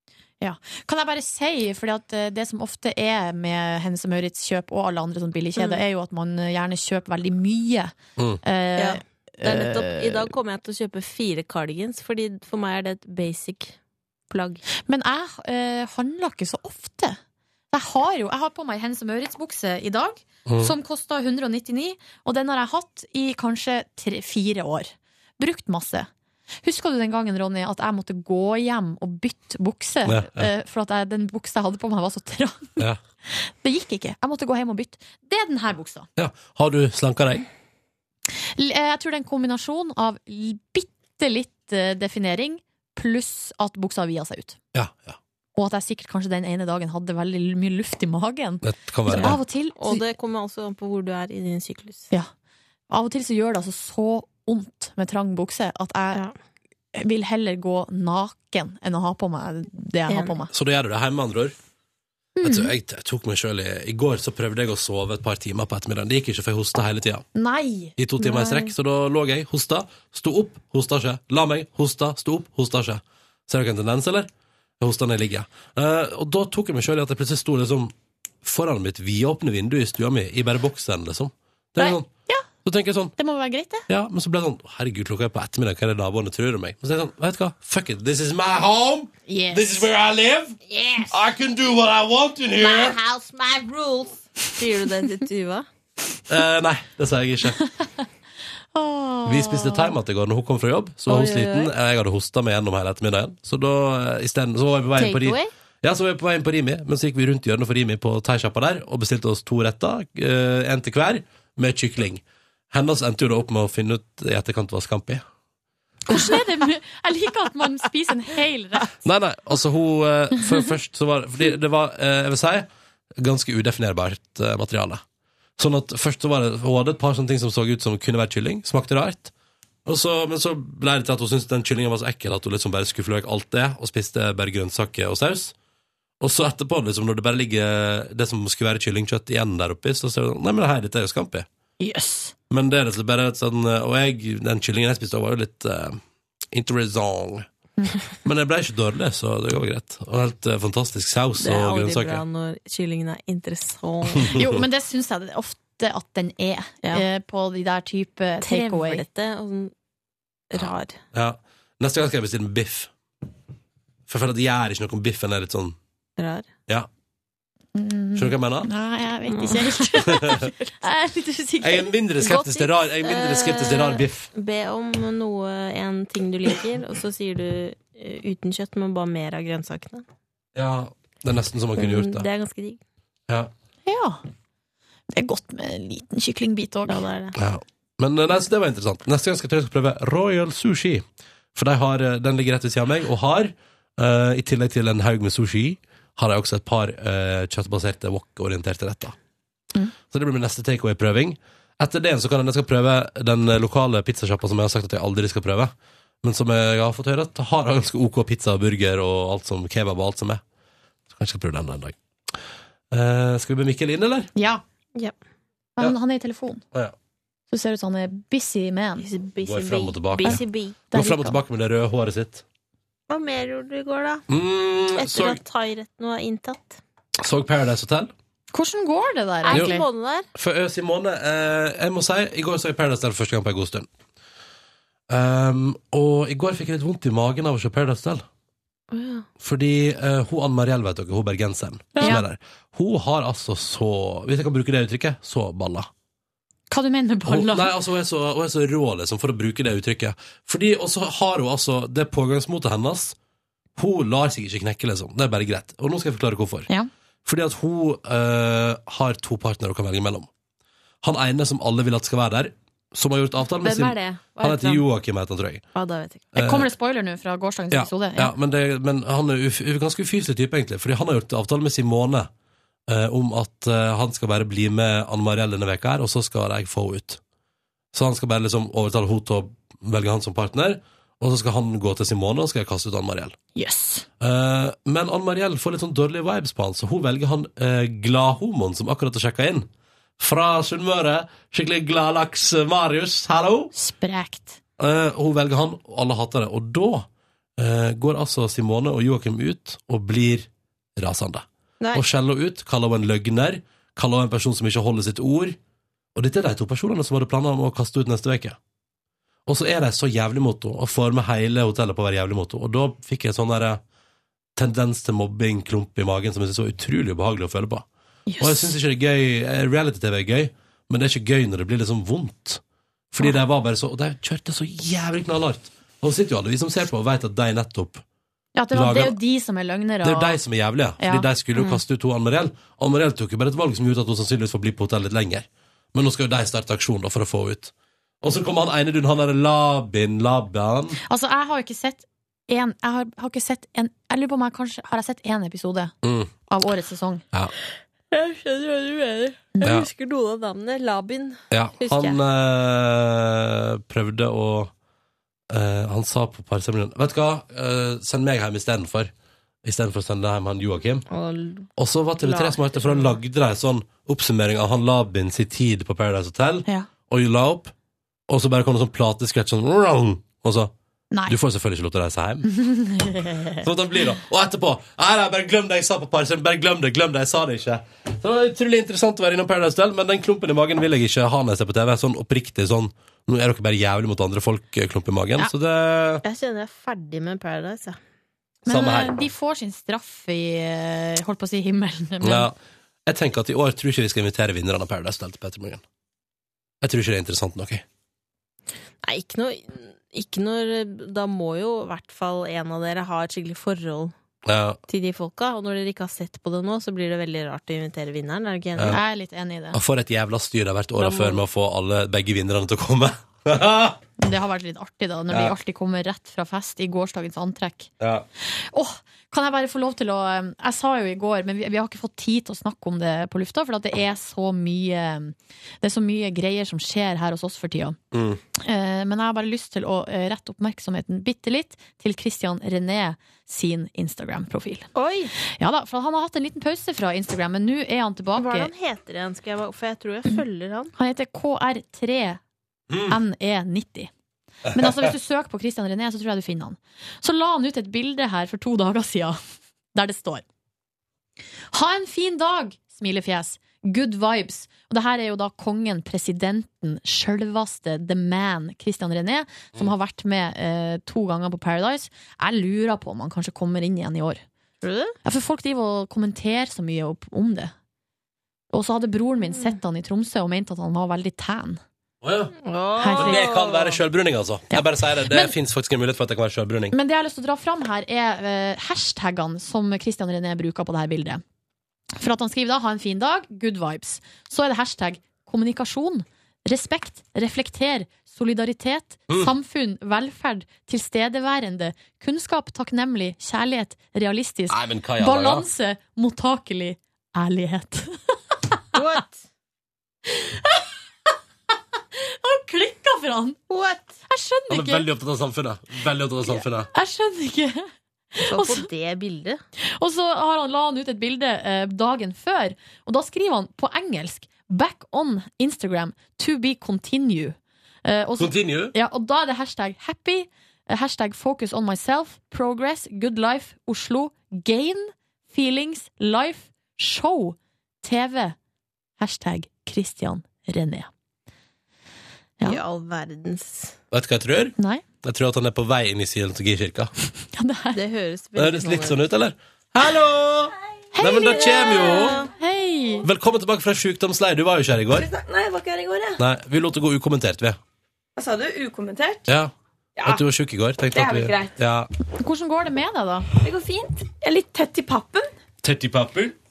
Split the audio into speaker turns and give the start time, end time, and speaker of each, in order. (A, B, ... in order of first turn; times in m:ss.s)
0:00.4-0:10.3 A
0:05.6-0:05.8 B
0:08.8-0:13.8 B
0:14.3-0:14.6 B
0:14.8-0:17.2 A
0:17.7-0:26.1 A
0:20.4-0:20.7 C
0:26.6-0:36.1 A
0:30.0-0:30.5 C
0:36.2-0:37.4 C
0:38.4-0:44.6 A
0:44.7-0:45.2 C
0:45.6-0:50.1 A
0:48.6-0:49.4 C
0:49.1-0:52.1 B
0:52.9-0:56.2 A
0:56.9-1:00.5 A
1:00.1-1:00.4 B
1:00.5-1:01.6 C
1:02.4-1:02.7 A
1:02.4-1:07.2 C
1:07.3-1:08.7 A
1:08.0-1:22.1 C
1:21.8-1:22.5 A
1:22.6-1:23.1 C
1:23.2-1:23.8 A
1:23.9-1:30.6 C
1:29.3-1:29.9 A
1:30.7-1:31.1 B
1:31.1-1:33.0 C
1:32.6-1:35.7 B
1:36.3-1:37.6 C
1:37.6-1:38.0 A
1:38.7-1:39.9 A
1:39.2-1:55.2 C
1:41.1-1:41.7 B
1:45.0-1:45.5 B
1:56.1-1:59.0 A
1:56.1-1:56.4 B
1:59.0-2:05.0 C
2:05.6-2:09.3 C
2:09.8-2:15.5 C
2:16.2-2:21.5 C
2:21.8-2:22.3 A
2:22.5-2:27.4 C
2:28.2-2:32.2 C
2:31.4-2:34.4 B
2:34.2-2:34.6 C
2:34.3-2:39.0 A
2:38.4-2:39.7 B
2:40.5-2:41.0 B
2:40.6-2:42.9 C
2:44.1-2:45.8 C
2:46.2-2:46.5 B
2:47.7-2:52.0 A
2:48.2-2:48.7 C
2:49.2-2:50.7 B
2:50.0-2:50.5 C
2:51.6-2:54.3 C
2:52.2-3:00.0 B
3:00.6-3:02.3 C
3:01.8-3:02.8 B
3:03.8-3:04.2 A
3:05.1-3:07.0 A
3:06.8-3:07.4 B
3:07.4-3:11.0 C
3:11.5-3:19.2 C
3:20.1-3:30.4 C
3:31.1-3:32.0 C
3:32.9-3:34.3 C
3:34.4-3:34.6 A
3:35.8-3:36.6 A
3:37.5-3:39.1 A
3:39.0-3:40.8 B
3:39.4-3:42.4 C
3:40.2-3:41.4 A
3:43.1-3:44.2 B
3:44.3-3:45.4 C
3:44.9-3:46.8 B
3:47.2-3:48.1 C
3:48.5-3:49.8 A
3:49.4-3:50.3 B
3:49.5-3:49.8 C
3:50.3-3:53.9 C
3:55.1-3:58.2 C
3:58.9-3:59.3 B
3:59.4-4:05.9 C
4:02.0-4:02.2 B
4:02.0-4:02.2 A
4:06.7-4:07.7 A
4:07.2-4:13.2 C
4:13.8-4:16.7 C
4:17.2-4:20.3 C
4:21.0-4:25.6 C
4:23.6-4:24.8 B
4:25.7-4:26.3 B
4:26.3-4:26.7 C
4:26.4-4:28.3 A
4:27.7-4:32.3 C
4:32.9-4:37.2 C
4:37.9-4:43.4 C
4:43.5-4:44.0 A
4:44.2-4:53.7 C
4:53.7-4:54.6 A
4:54.8-4:57.1 C
4:57.6-5:05.6 C
5:01.8-5:02.0 B
5:06.1-5:08.6 C
5:09.5-5:13.8 C
5:14.6-5:17.8 C
5:18.3-5:18.7 A
5:18.4-5:22.6 C
5:23.1-5:28.0 C
5:28.5-5:30.4 A
5:28.7-5:29.2 C
5:30.0-5:41.0 C
5:31.0-5:31.3 A
5:31.6-5:31.8 B
5:41.0-5:45.9 A
5:46.0-5:46.3 C
5:46.5-5:47.2 A
5:48.1-5:52.2 B
5:49.6-5:49.9 C
5:51.5-5:54.7 C
5:55.5-5:59.1 C
5:59.6-6:01.0 C
6:01.1-6:03.2 B
6:01.8-6:07.7 C
6:08.3-6:10.7 C
6:11.1-6:11.4 A
6:11.3-6:12.5 C
6:12.5-6:13.6 A
6:13.6-6:26.2 C
6:26.2-6:28.0 B
6:28.6-6:32.5 A
6:28.7-6:29.2 C
6:32.2-6:35.8 C
6:36.8-6:37.8 C
6:39.0-6:44.1 B
6:44.4-6:44.8 C
6:44.9-6:49.0 B
6:48.8-6:49.0 C
6:48.8-6:49.8 A
6:49.7-6:54.0 C
6:51.0-6:51.4 B
6:54.2-6:57.9 A
6:55.3-6:55.5 C
6:58.0-6:58.2 C
6:58.4-7:08.0 A
7:08.1-7:08.4 C
7:08.5-7:18.7 A
7:14.9-7:15.3 B
7:18.4-7:20.9 B
7:20.9-7:22.4 A
7:22.9-7:23.2 C
7:23.1-7:24.1 A
7:24.7-7:25.1 C
7:24.7-7:29.4 A
7:29.9-7:30.4 A
7:31.7-7:44.4 A
7:44.8-7:45.1 B
7:45.2-7:47.7 A
7:48.7-7:51.8 A
7:52.2-7:52.5 C
7:52.6-7:54.0 B
7:53.0-7:53.5 A
7:53.1-7:56.9 C
7:54.7-7:55.5 A
7:56.9-8:01.4 A
8:02.2-8:18.8 A
8:14.7-8:15.7 C
8:18.9-8:19.4 B
8:20.3-8:20.9 A
8:22.2-8:23.6 A
8:23.7-8:24.2 B
8:24.3-8:25.1 A
8:24.7-8:26.9 C
8:26.9-8:28.9 A
8:28.4-8:29.6 B
8:29.9-8:48.6 A
8:38.4-8:38.9 C
8:49.2-8:51.1 A
8:52.6-8:54.0 B
8:54.1-8:57.1 C
8:54.8-8:55.0 A
8:57.5-8:58.0 A
8:57.9-8:59.2 B
8:58.6-9:02.4 C
9:01.1-9:03.3 A
9:02.1-9:02.5 B
9:03.2-9:05.3 C
9:05.1-9:06.4 D
9:06.4-9:07.8 C
9:08.4-9:09.5 D
9:09.5-9:12.1 C
9:10.2-9:10.4 D
9:11.1-9:11.8 D
9:12.4-9:13.5 A
9:13.6-9:15.5 D
9:15.8-9:16.6 C